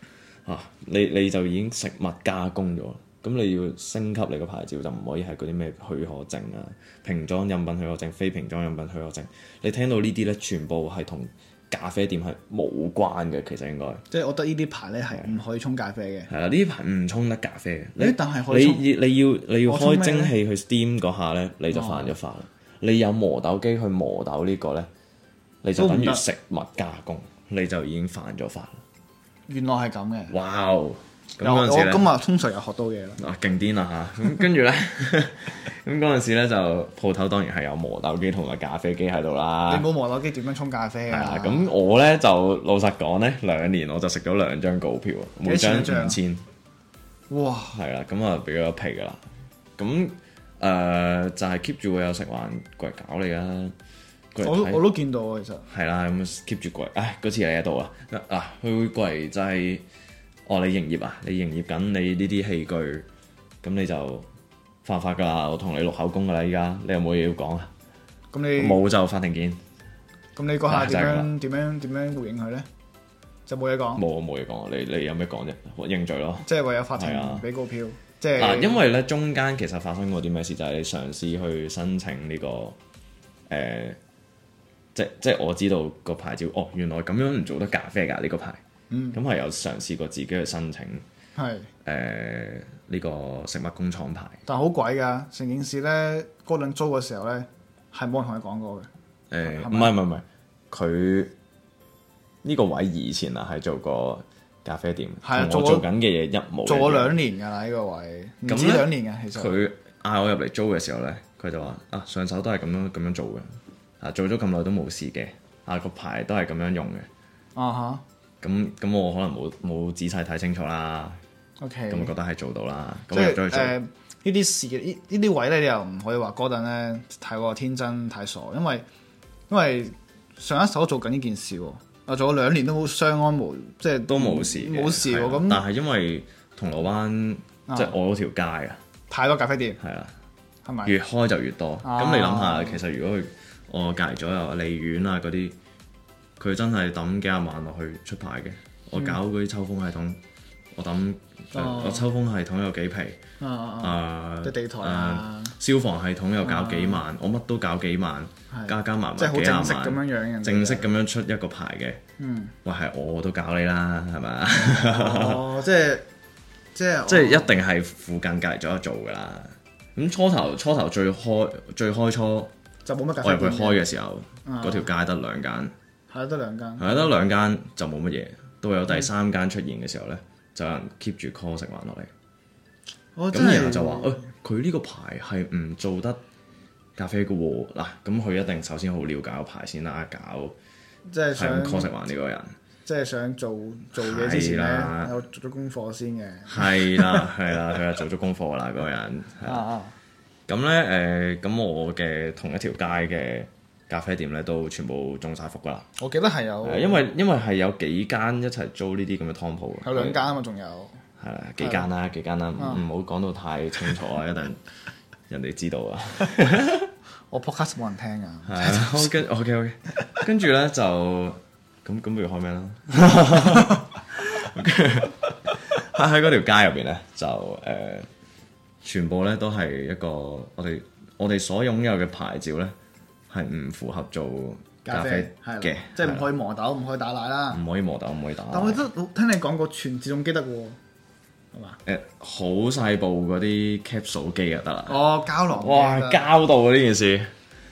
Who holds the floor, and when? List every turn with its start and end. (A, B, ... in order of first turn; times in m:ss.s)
0:00.4-0:14.0 A
0:14.1-0:16.3 B
0:16.3-0:24.9 A
0:18.0-0:18.8 B
0:19.6-0:20.3 B
0:21.7-0:22.1 B
0:25.6-0:28.8 A
0:25.8-0:26.2 B
0:29.5-0:30.3 B
0:30.3-0:32.0 A
0:31.4-0:33.2 B
0:33.2-0:39.9 A
0:39.7-0:41.7 B
0:41.1-0:46.4 A
0:45.4-0:46.2 B
0:47.3-0:47.8 B
0:47.7-0:49.2 A
0:49.8-0:53.7 A
0:54.3-0:54.8 A
0:54.4-0:55.6 B
0:55.7-0:59.8 A
1:00.5-1:03.1 A
1:03.6-1:04.3 A
1:04.8-1:07.7 A
1:08.3-1:08.8 B
1:08.6-1:09.6 A
1:10.4-1:12.7 B
1:10.7-1:11.3 A
1:13.5-1:14.0 B
1:14.0-1:16.4 A
1:16.4-1:18.8 B
1:17.0-1:17.4 A
1:18.4-1:22.8 A
1:23.5-1:24.0 A
1:24.9-1:28.6 A
1:28.9-1:29.2 B
1:29.1-1:31.0 A
1:31.4-1:31.7 B
1:31.8-1:34.4 A
1:34.4-1:38.9 B
1:39.3-1:41.3 A
1:39.6-1:39.9 B
1:42.4-1:47.2 A
1:45.2-1:45.8 B
1:46.6-1:49.5 B
1:48.4-1:53.4 A
1:54.0-1:57.1 A
1:57.5-1:58.0 B
1:58.4-2:01.2 A
2:01.6-2:02.1 B
2:01.9-2:03.8 A
2:03.1-2:08.8 B
2:09.5-2:15.6 B
2:14.1-2:18.8 A
2:17.7-2:17.9 B
2:19.1-2:19.8 B
2:19.8-2:20.1 A
2:20.6-2:20.9 B
2:20.8-2:25.6 A
2:21.8-2:22.8 B
2:26.4-2:30.2 A
2:30.7-2:33.2 A
2:31.5-2:32.1 B
2:33.4-2:35.5 B
2:33.8-2:42.0 A
2:36.4-2:37.0 B
2:38.5-2:40.9 B
2:42.2-2:42.5 B
2:42.6-2:45.4 A
2:44.6-2:46.1 B
2:46.7-2:47.5 B
2:47.1-2:52.5 A
2:52.8-2:53.8 B
2:53.2-2:55.7 A
2:54.4-2:54.9 B
2:56.1-2:57.1 B
2:56.8-3:02.1 A
3:03.2-3:04.3 B
3:03.3-3:06.2 A
3:07.0-3:10.6 A
3:11.1-3:11.9 B
3:11.3-3:12.5 A
3:12.8-3:17.3 B
3:14.0-3:15.1 A
3:16.5-3:19.6 A
3:19.4-3:19.9 B
3:20.5-3:25.8 A
3:26.0-3:27.0 B
3:26.6-3:30.2 A
3:29.8-3:31.0 B
3:31.2-3:34.6 A
3:31.6-3:31.9 B
3:32.6-3:32.8 B
3:35.3-3:36.9 A
3:37.3-3:39.1 B
3:38.5-3:48.1 A
3:48.8-3:52.7 A
3:53.3-3:56.3 A
3:54.8-3:57.6 B
3:57.5-3:58.8 A
3:58.5-4:00.8 B
4:01.5-4:01.8 B
4:01.8-4:07.3 A
4:04.9-4:06.3 B